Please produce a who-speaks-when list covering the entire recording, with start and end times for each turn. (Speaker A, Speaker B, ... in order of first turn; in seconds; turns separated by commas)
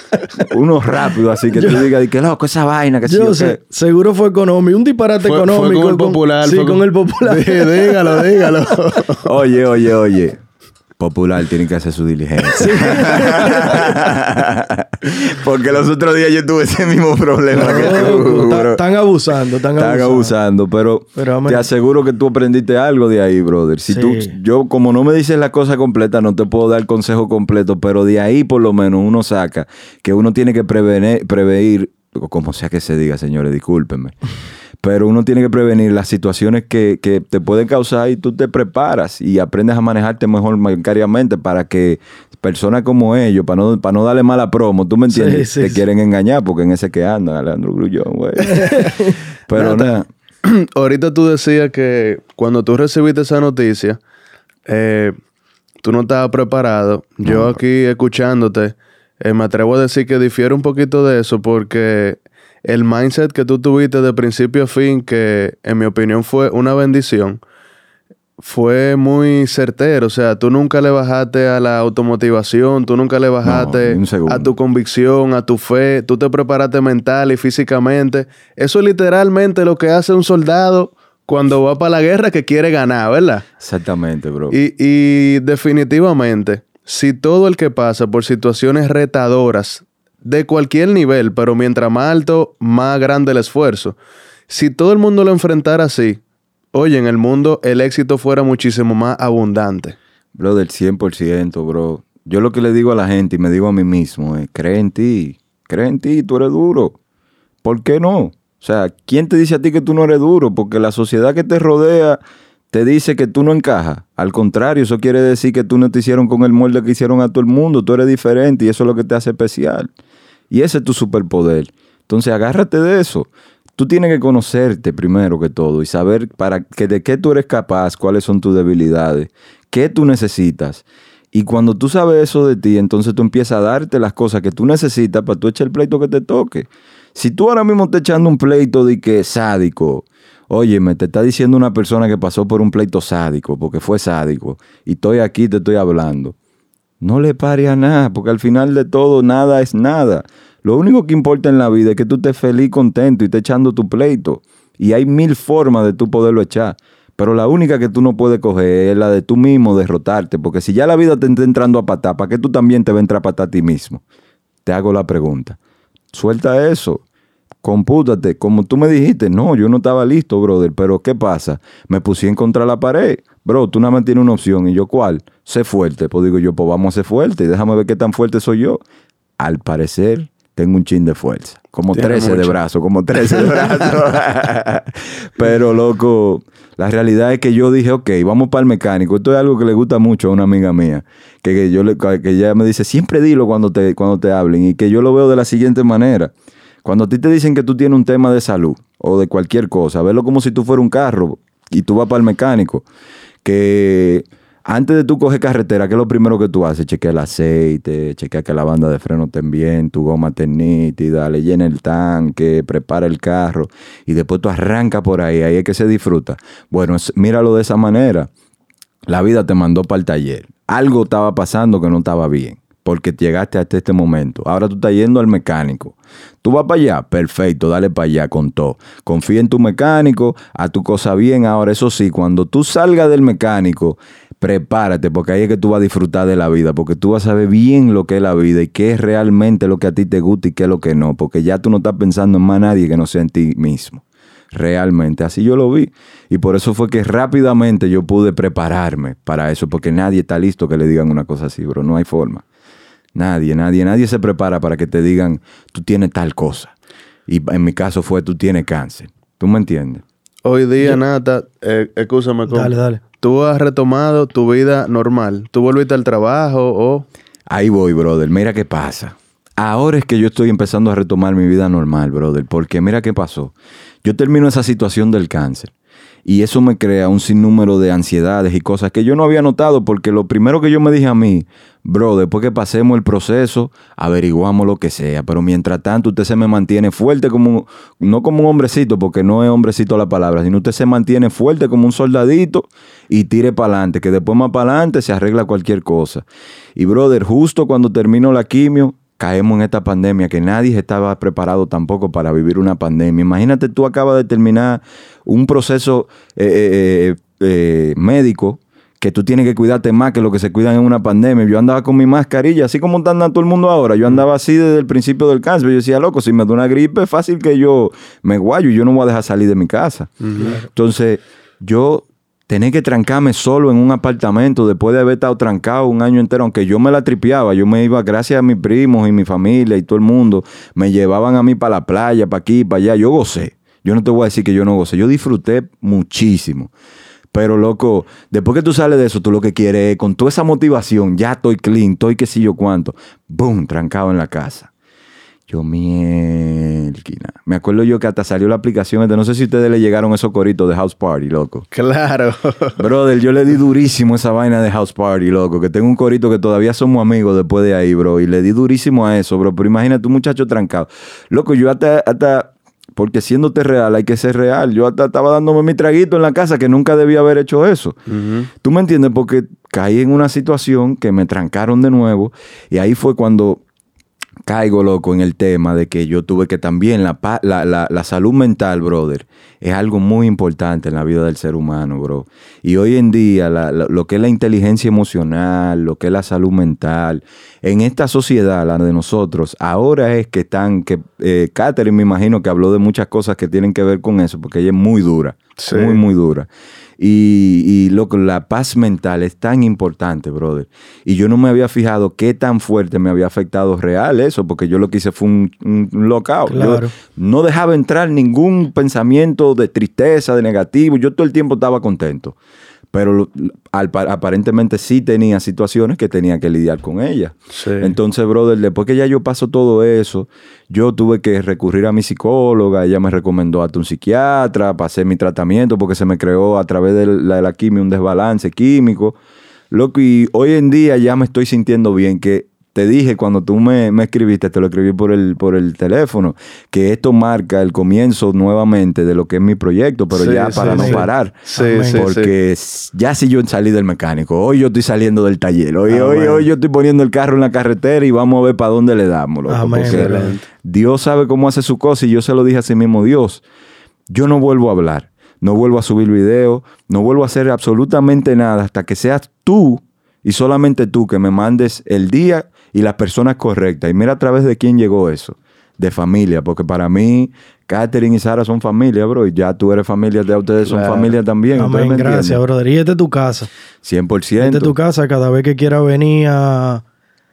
Speaker A: 0.1-0.5, Speaker B: 0.4-3.6, Speaker A: 1.5-1.8, Speaker A: 3.0-8.2, Speaker C: 5.2-9.3, Speaker B: 9.2-10.4, Speaker B: 11.0-18.8, Speaker A: 12.5-13.9, Speaker A: 17.5-20.3, Speaker B: 19.8-34.1, Speaker A: 21.1-21.7, Speaker A: 23.9-24.4, Speaker B: 34.8-50.1, Speaker A: 45.1-45.8, Speaker A: 48.5-49.9, Speaker C: 49.5-49.9, Speaker C: 50.4-54.0, Speaker C: 54.6-55.2, Speaker C: 55.8-67.4, Speaker B: 57.2-57.6, Speaker C: 68.4-83.5, Speaker B: 73.4-74.5, Speaker B: 83.6-84.6, Speaker C: 84.5-94.0, Speaker C: 94.5-96.2, Speaker C: 96.7-100.0, Speaker B: 100.3-107.0, Speaker B: 107.6-112.2, Speaker B: 112.7-119.9, Speaker B: 120.5-146.3, Speaker B: 147.0-164.0, Speaker B: 164.6-165.6, Speaker B: 166.1-167.0, Speaker B: 167.6-178.8, Speaker B: 179.4-196.3, Speaker C: 181.9-182.6, Speaker C: 183.3-183.9, Speaker B: 196.8-202.8, Speaker B: 203.4-218.3, Speaker B: 219.1-252.4, Speaker B: 253.1-256.7, Speaker B: 257.3-260.0, Speaker C: 260.4-267.1, Speaker A: 262.5-263.0, Speaker B: 267.5-275.7, Speaker B: 276.2-296.2, Speaker B: 296.8-336.7, Speaker C: 320.2-320.6, Speaker A: 320.4-320.6, Speaker B: 337.3-344.7, Speaker B: 345.5-351.7, Speaker C: 351.7-352.8, Speaker B: 352.8-368.0, Speaker C: 368.1-368.5, Speaker B: 368.6-373.6, Speaker B: 374.4-396.5, Speaker C: 395.6-396.0, Speaker B: 397.0-412.4, Speaker A: 406.5-406.9, Speaker B: 412.9-429.2, Speaker C: 417.5-417.9, Speaker B: 429.7-453.4, Speaker C: 440.1-442.3, Speaker A: 440.6-441.0, Speaker A: 441.5-442.0, Speaker C: 445.9-446.5, Speaker A: 449.5-450.3, Speaker C: 449.9-450.4, Speaker B: 454.1-472.4, Speaker C: 470.6-471.1, Speaker A: 471.5-473.5, Speaker B: 473.8-474.7, Speaker A: 474.4-476.8